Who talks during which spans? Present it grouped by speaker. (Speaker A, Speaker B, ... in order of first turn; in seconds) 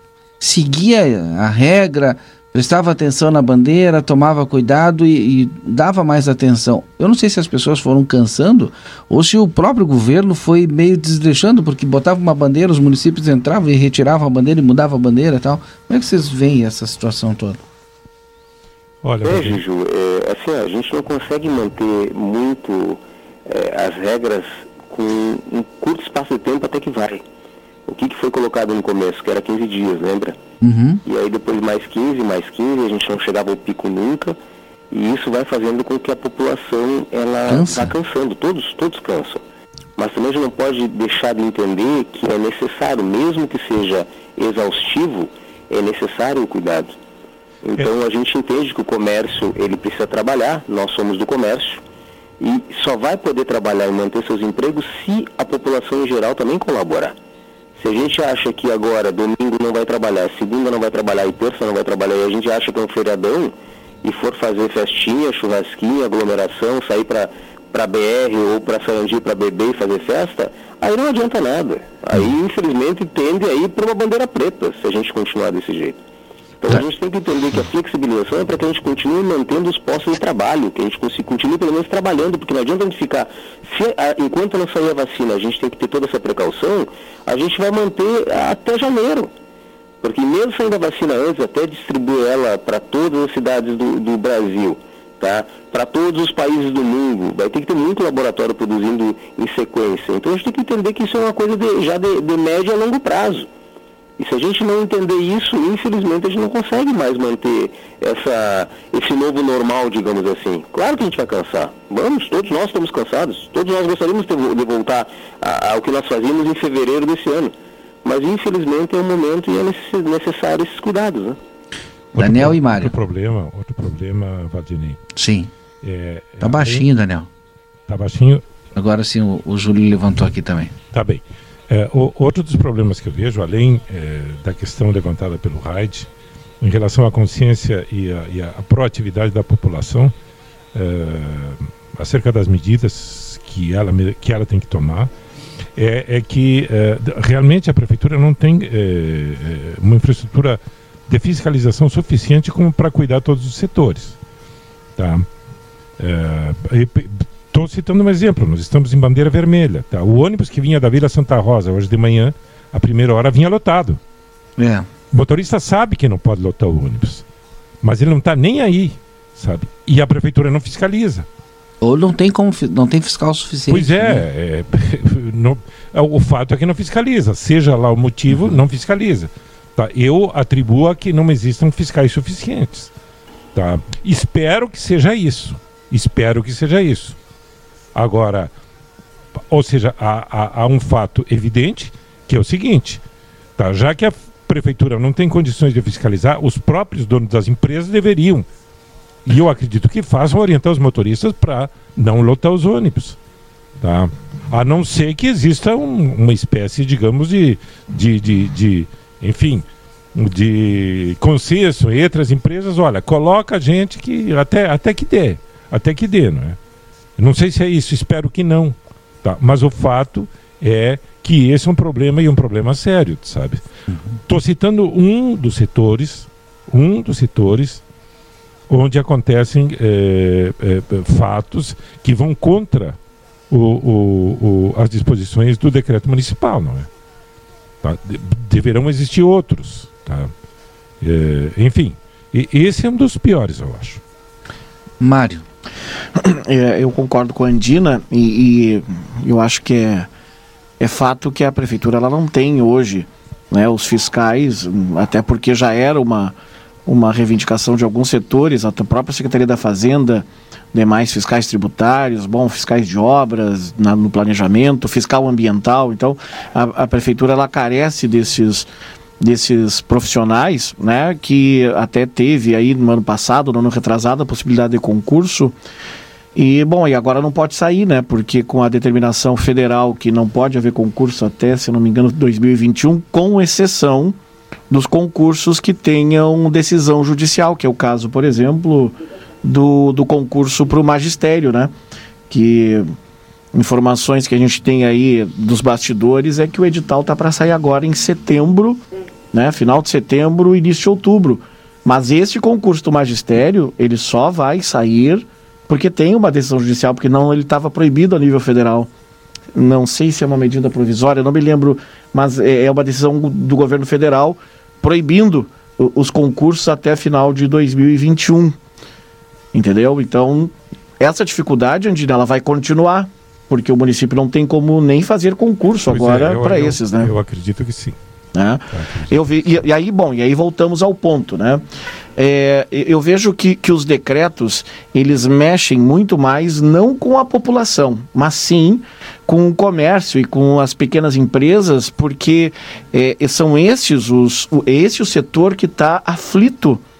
Speaker A: 0.4-17.6, 30.6-31.0, 37.5-37.9, 122.1-122.9, 125.1-125.5, 126.4-127.3, 128.7-130.7, 164.6-164.9, 171.8-174.2, 178.3-178.6, 245.0-245.4
Speaker B: 19.0-19.6, 122.1-125.0, 125.8-126.9, 127.9-128.4, 130.9-136.1, 136.6-140.1, 140.7-145.1, 145.8-154.2, 155.0-155.3, 156.0-164.0, 165.1-167.2, 167.8-171.2, 173.7-182.9, 183.5-187.2, 187.9-188.5, 189.5-193.0, 193.6-198.5, 199.2-203.2, 203.8-216.6, 217.2-223.7, 224.3-227.8, 228.7-233.0, 233.5-236.9, 237.8-240.3, 241.0-244.0, 325.8-328.0, 328.7-329.2
Speaker C: 19.2-27.2, 27.9-30.4, 31.0-34.4, 34.9-39.4, 40.0-47.0, 47.6-51.8, 52.4-57.1, 57.8-76.0, 76.6-89.3, 90.0-103.5, 104.2-121.4
Speaker D: 246.2-250.1, 250.8-268.7, 269.2-275.6, 276.3-284.1, 284.7-291.7, 292.3-292.9, 293.5-298.8, 299.3-308.9, 309.5-318.6, 319.5-327.1, 328.3-331.6, 332.2-346.8